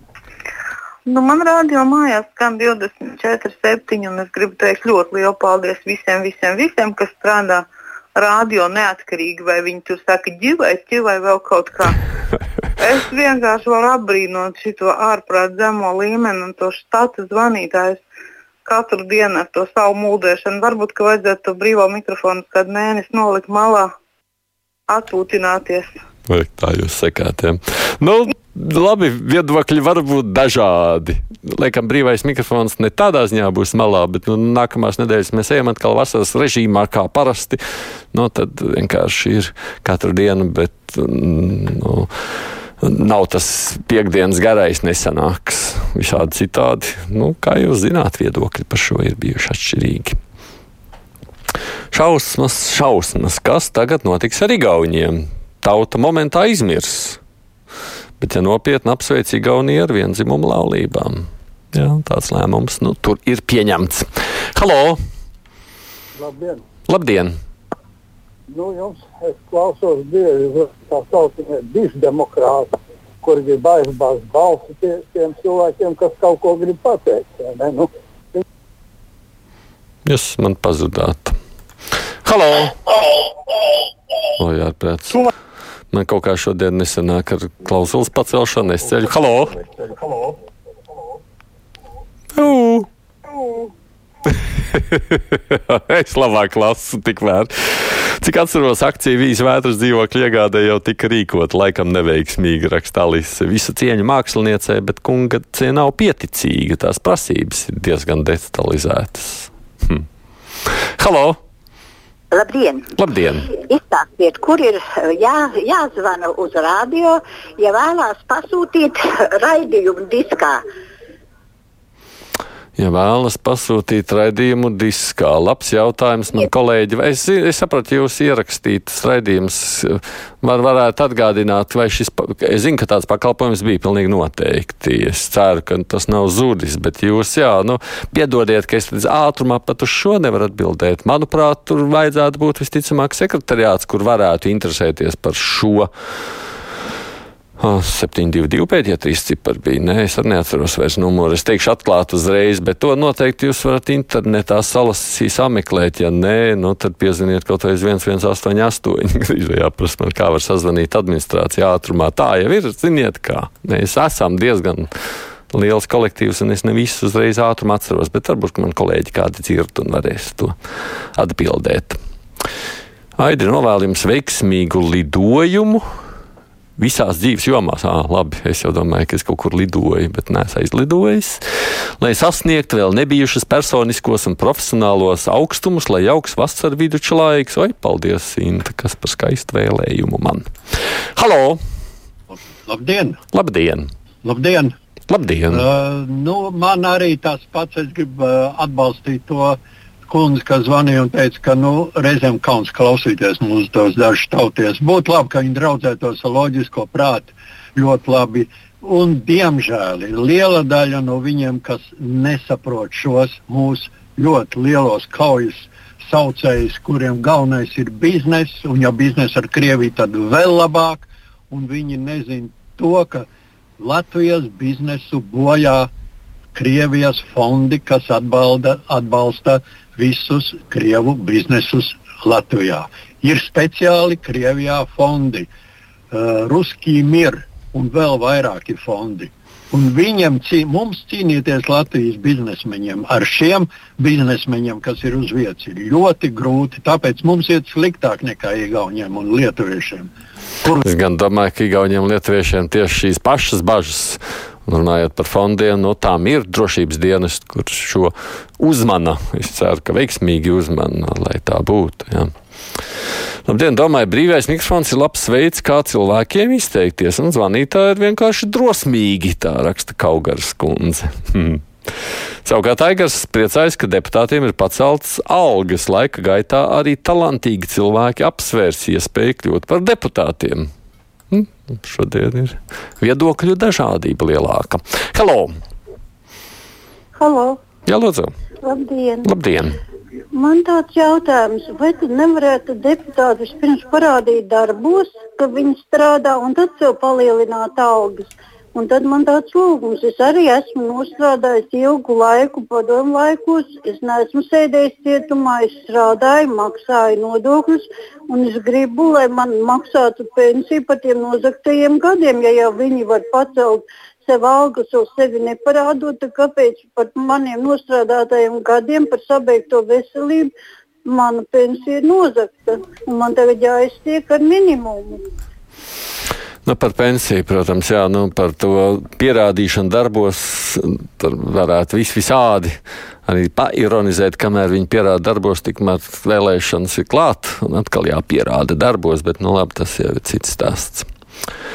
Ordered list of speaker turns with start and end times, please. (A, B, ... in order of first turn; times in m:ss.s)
0:01.0-0:12.0 A
0:12.8-0:18.0 A
0:18.6-0:23.9 A
0:24.9-0:25.9 A
0:26.3-0:37.6 B
0:38.1-0:42.1 B
0:42.8-0:50.2 B
0:51.9-0:57.2 B
0:58.2-1:05.0 B
1:06.2-1:06.6 C
1:06.9-1:07.3 B
1:08.5-1:12.7 C
1:13.2-1:18.4 C
1:20.0-1:21.4 B
1:22.2-1:22.8 B
1:24.4-1:25.3 B
1:25.9-1:29.8 B
1:32.4-1:32.9 B
1:34.3-1:50.0 B
1:51.0-1:51.4 B
1:53.0-1:53.5 B
1:53.7-1:56.9 D
1:57.6-1:58.9 D
1:59.4-2:00.4 D
2:02.8-2:25.9 B
2:27.6-2:44.9 B
2:45.5-2:50.6 B
2:51.2-2:52.0 B
2:53.2-2:55.8 B
2:56.8-3:01.4 B
3:02.0-3:10.5 B
3:11.2-3:11.6 B
3:12.3-3:13.2 E
3:13.3-3:13.9 B
3:14.2-3:14.7 E
3:15.1-3:15.6 B
3:15.5-3:43.3 E
3:43.8-3:45.9 E
3:46.6-3:55.5 E
3:56.1-4:10.1 E
4:10.8-4:22.3 B
4:23.4-4:31.6 B
4:32.4-4:40.7 B
4:41.3-4:45.5 B
4:47.2-4:47.6 F
4:47.9-4:48.3 B
4:48.6-4:49.3 F
4:49.2-4:49.8 B
4:50.3-5:20.5 F
5:21.0-5:25.2 F
5:26.7-5:41.1 B